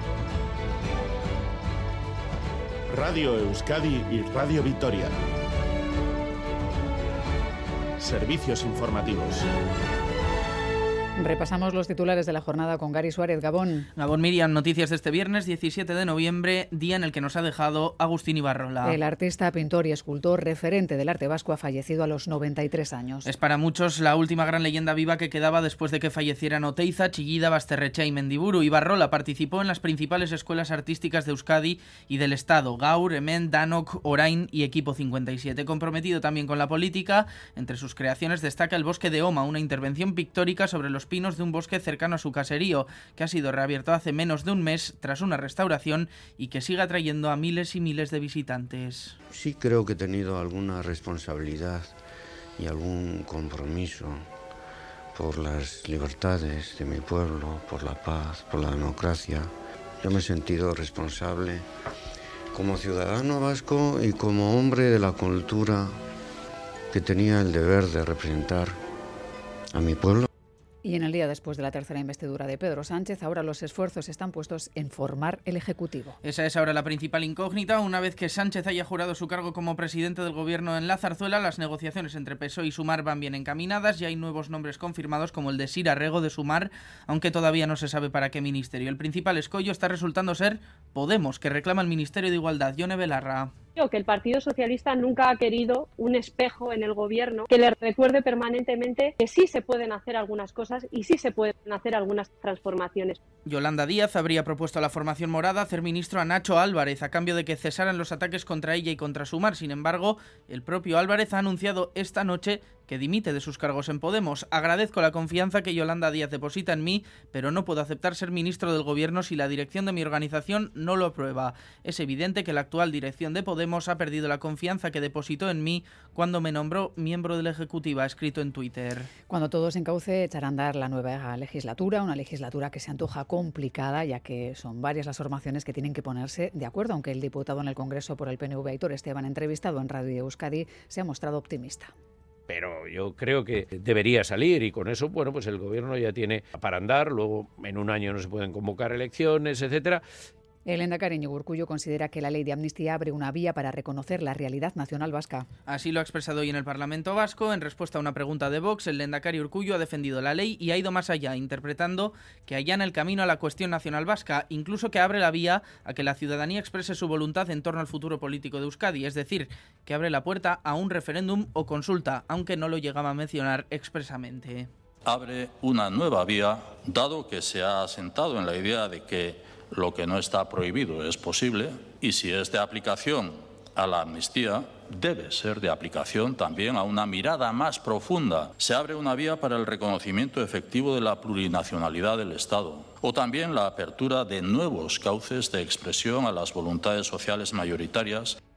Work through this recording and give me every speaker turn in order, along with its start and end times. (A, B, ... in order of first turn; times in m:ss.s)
0:02.9-0:05.1 A
0:08.0-0:09.5 A
0:11.2-0:13.9 B
0:14.0-0:19.0 C
0:18.8-0:23.3 B
0:23.2-0:49.2 C
0:49.3-0:52.0 D
0:52.6-0:54.2 D
0:55.2-0:59.5 D
1:00.0-1:01.6 D
1:02.5-1:05.9 D
1:06.9-1:08.8 D
1:09.7-1:10.3 D
1:10.8-1:16.2 B
1:16.2-1:33.5 C
1:33.8-1:43.2 E
1:43.5-2:09.1 C
2:09.3-2:21.9 B
2:22.5-2:30.0 F
2:30.7-2:35.5 B
2:35.7-2:54.7 C
2:55.1-3:18.4 G